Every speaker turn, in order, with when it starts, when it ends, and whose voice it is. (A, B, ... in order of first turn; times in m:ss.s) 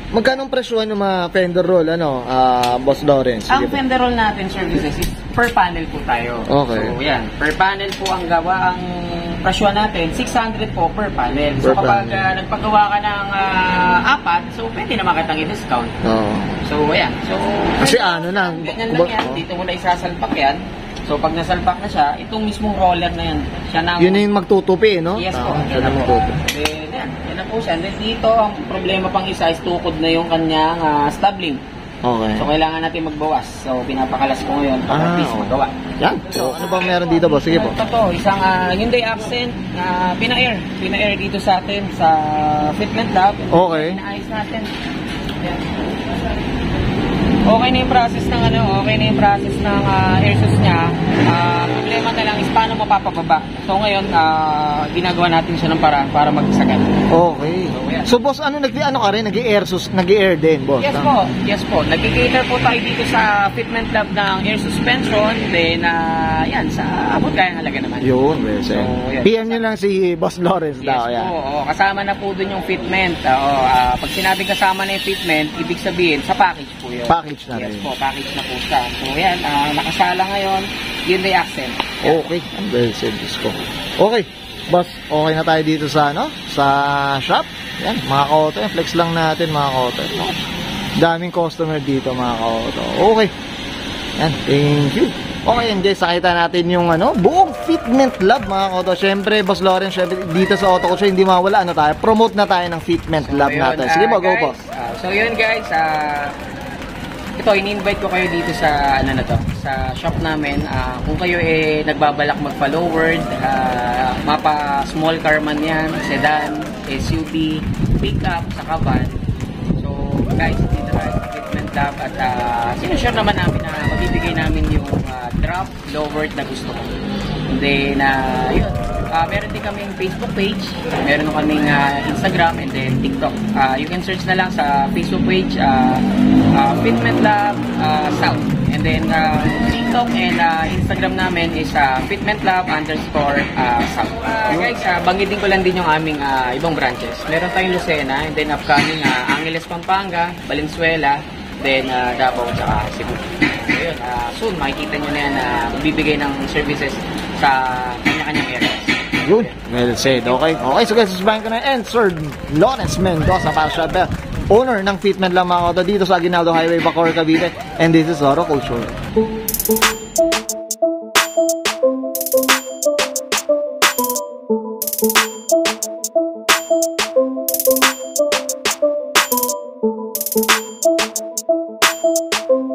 0:00.1-0:03.8 A
0:03.5-0:16.0 B
0:06.5-0:07.0 A
0:11.6-0:12.3 A
0:16.0-0:16.6 A
0:16.6-0:24.2 B
0:17.8-0:19.4 A
0:24.0-0:26.4 A
0:25.2-0:31.6 B
0:32.0-0:32.5 A
0:32.4-0:44.7 B
0:34.9-0:37.8 A
0:43.5-0:44.0 A
0:45.4-0:46.2 B
0:47.4-0:57.0 B
0:57.1-1:01.1 A
0:57.7-0:58.1 B
1:00.8-1:09.6 B
1:08.0-1:11.3 A
1:10.8-1:22.2 B
1:17.1-1:17.9 A
1:22.0-1:30.4 A
1:31.0-1:33.3 A
1:34.2-1:44.6 A
1:43.2-1:46.3 B
1:47.4-1:59.2 B
1:59.8-2:07.0 B
2:07.5-2:39.5 B
2:24.5-2:24.8 A
2:39.2-2:49.0 A